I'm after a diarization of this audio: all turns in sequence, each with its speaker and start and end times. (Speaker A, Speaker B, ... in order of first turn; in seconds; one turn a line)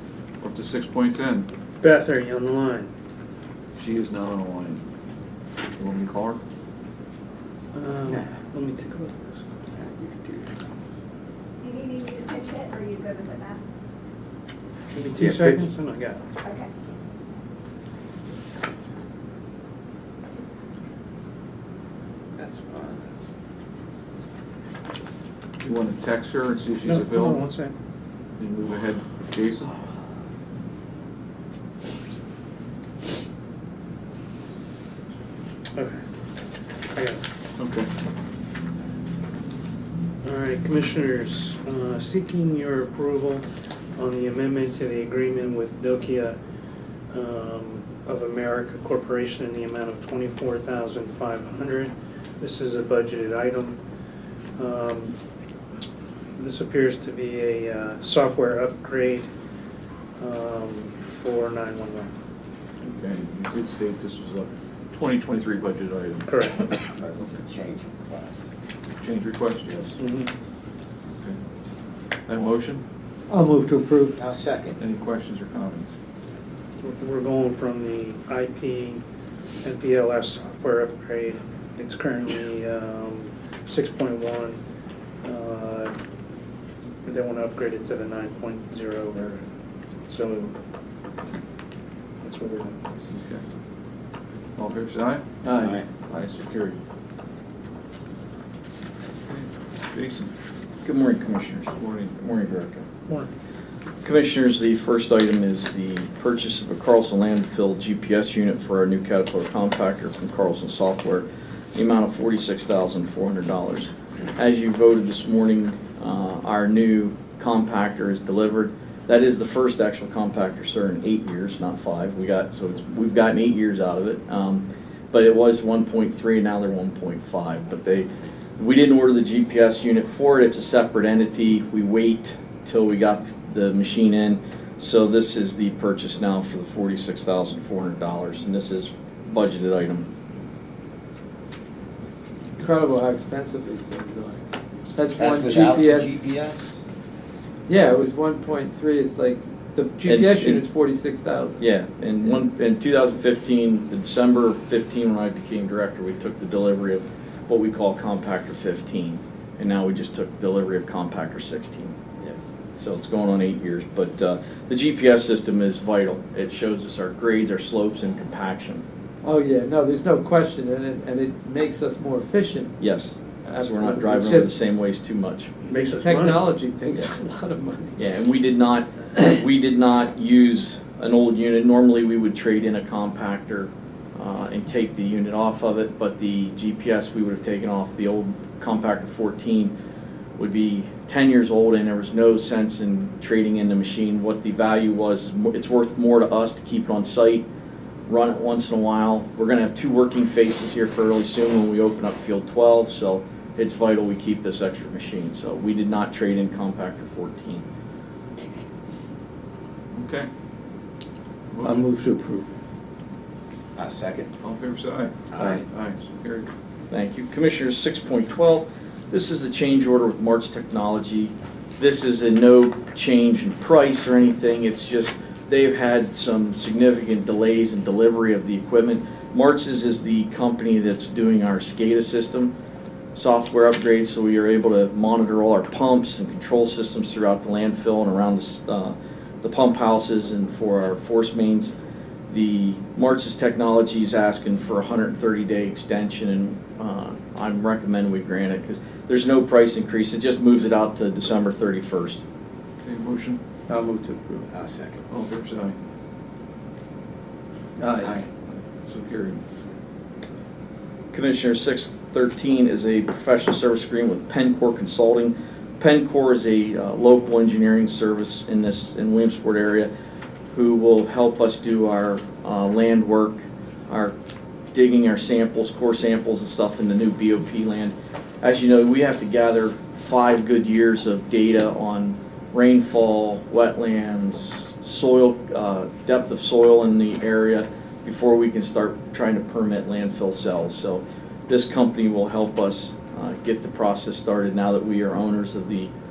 Speaker A: 0.4-1.5
Speaker B: 1.8-2.9
Speaker A: 3.8-4.8
Speaker A: 5.8-6.4
Speaker B: 7.7-9.4
Speaker C: 9.7-10.6
Speaker D: 11.6-13.6
Speaker B: 14.9-16.2
Speaker C: 15.2-15.6
Speaker D: 16.4-16.7
Speaker C: 22.4-23.1
Speaker A: 25.6-27.5
Speaker B: 26.8-27.7
Speaker A: 28.4-29.7
Speaker B: 36.9-37.2
Speaker A: 37.6-37.9
Speaker B: 40.2-46.4
Speaker B: 47.1-53.8
Speaker B: 54.6-55.1
Speaker B: 56.4-59.3
Speaker B: 60.2-62.1
Speaker A: 62.8-67.2
Speaker B: 66.3-66.7
Speaker C: 67.0-68.5
Speaker A: 69.0-70.0
Speaker B: 70.0-70.3
Speaker A: 72.3-72.8
Speaker E: 73.3-74.2
Speaker C: 74.2-74.8
Speaker A: 74.8-75.9
Speaker B: 76.8-79.0
Speaker B: 79.6-84.6
Speaker B: 85.2-85.9
Speaker B: 87.0-89.4
Speaker B: 90.1-90.5
Speaker B: 92.2-93.1
Speaker A: 93.1-93.4
Speaker A: 94.6-95.2
Speaker E: 95.4-95.8
Speaker C: 95.6-95.9
Speaker A: 96.0-96.8
Speaker A: 99.3-100.3
Speaker F: 100.8-102.9
Speaker A: 101.8-102.2
Speaker F: 104.0-140.1
Speaker E: 142.6-146.2
Speaker C: 145.2-146.8
Speaker E: 147.7-151.6
Speaker F: 150.1-150.6
Speaker F: 151.6-162.0
Speaker F: 162.8-168.8
Speaker E: 169.2-172.8
Speaker F: 172.8-175.5
Speaker E: 173.4-174.5
Speaker B: 175.7-176.4
Speaker E: 175.7-178.0
Speaker F: 178.0-189.7
Speaker F: 190.4-197.5
Speaker F: 198.1-207.7
Speaker A: 209.9-210.3
Speaker A: 211.5-211.9
Speaker E: 211.6-212.5
Speaker C: 213.8-214.3
Speaker A: 214.4-216.5
Speaker C: 215.3-215.6
Speaker F: 216.9-232.5
Speaker F: 233.2-241.7
Speaker F: 242.3-252.2
Speaker A: 252.8-253.4
Speaker E: 253.7-254.5
Speaker C: 254.5-255.1
Speaker A: 255.1-255.8
Speaker E: 257.8-258.2
Speaker C: 258.0-258.3
Speaker A: 258.5-259.4
Speaker F: 261.1-269.9
Speaker F: 270.5-274.1
Speaker F: 274.7-295.9